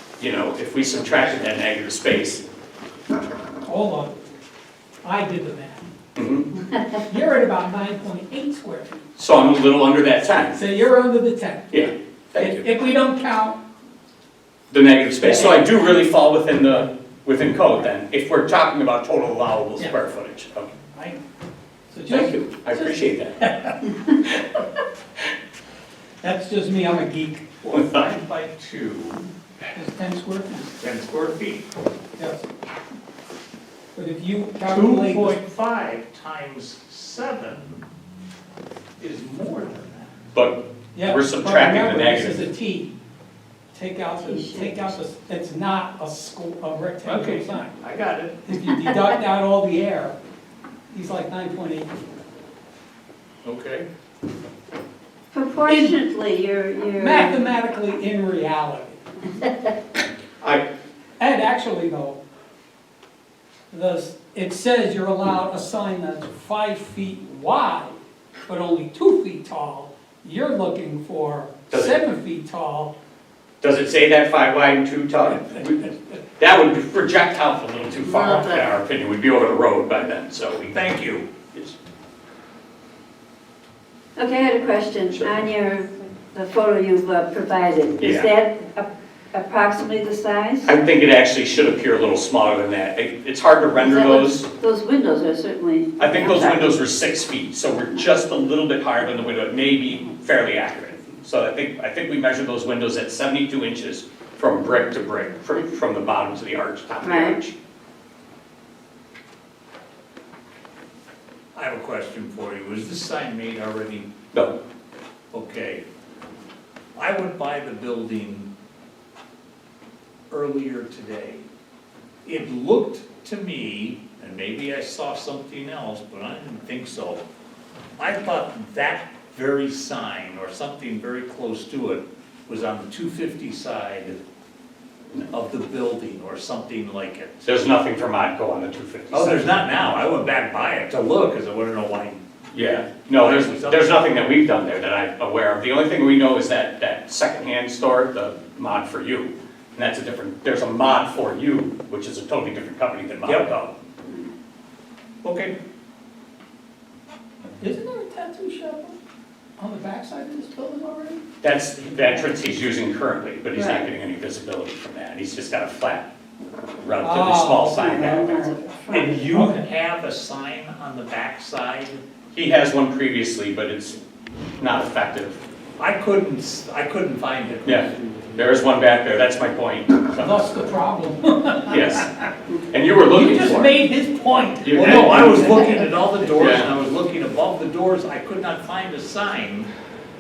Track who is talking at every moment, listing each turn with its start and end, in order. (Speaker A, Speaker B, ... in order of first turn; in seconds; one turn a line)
Speaker A: 0.2-2.4
Speaker B: 3.6-4.1
Speaker B: 5.0-5.9
Speaker A: 6.2-6.5
Speaker B: 7.0-9.1
Speaker A: 9.2-10.6
Speaker B: 10.5-11.8
Speaker A: 11.7-12.6
Speaker B: 12.3-13.6
Speaker A: 14.7-20.7
Speaker B: 15.2-15.7
Speaker B: 20.9-21.2
Speaker B: 21.9-23.5
Speaker A: 22.1-24.4
Speaker B: 26.2-27.5
Speaker C: 27.6-29.3
Speaker A: 27.7-28.1
Speaker B: 29.7-30.7
Speaker C: 30.8-31.7
Speaker B: 32.1-32.5
Speaker B: 33.9-35.4
Speaker C: 34.7-37.8
Speaker C: 39.0-40.1
Speaker A: 40.3-42.4
Speaker B: 40.9-42.9
Speaker B: 43.7-47.7
Speaker D: 44.2-44.9
Speaker C: 47.0-48.4
Speaker B: 48.4-50.2
Speaker B: 50.9-51.9
Speaker C: 53.4-53.9
Speaker D: 55.3-57.4
Speaker B: 55.7-56.0
Speaker B: 57.0-59.0
Speaker B: 61.2-62.2
Speaker B: 63.7-72.9
Speaker A: 71.7-71.9
Speaker A: 73.6-80.8
Speaker D: 78.1-78.7
Speaker C: 80.7-81.3
Speaker D: 84.2-90.7
Speaker A: 85.1-85.4
Speaker A: 88.0-88.3
Speaker A: 90.6-94.5
Speaker D: 93.8-96.7
Speaker A: 96.0-107.5
Speaker D: 107.0-107.4
Speaker C: 111.5-114.1
Speaker C: 115.3-115.8
Speaker C: 117.0-118.5
Speaker C: 120.3-121.4
Speaker C: 122.2-127.2
Speaker C: 128.0-134.2
Speaker C: 135.3-137.5
Speaker A: 137.4-140.0
Speaker C: 139.1-142.2
Speaker A: 142.5-153.7
Speaker C: 143.1-144.1
Speaker C: 153.2-153.5
Speaker C: 155.2-155.6
Speaker B: 157.6-159.0
Speaker B: 159.6-161.2
Speaker A: 161.4-166.1
Speaker D: 163.5-163.9
Speaker A: 166.8-168.5
Speaker B: 167.0-168.0
Speaker D: 167.7-169.3
Speaker C: 168.9-172.0
Speaker B: 169.3-169.6
Speaker A: 172.3-174.0
Speaker A: 174.6-175.4
Speaker C: 175.8-178.3
Speaker A: 177.6-180.4
Speaker B: 180.2-182.2
Speaker A: 181.7-182.1
Speaker A: 182.7-183.8
Speaker B: 183.1-186.5
Speaker A: 184.6-185.7
Speaker C: 184.7-189.7
Speaker A: 186.3-186.7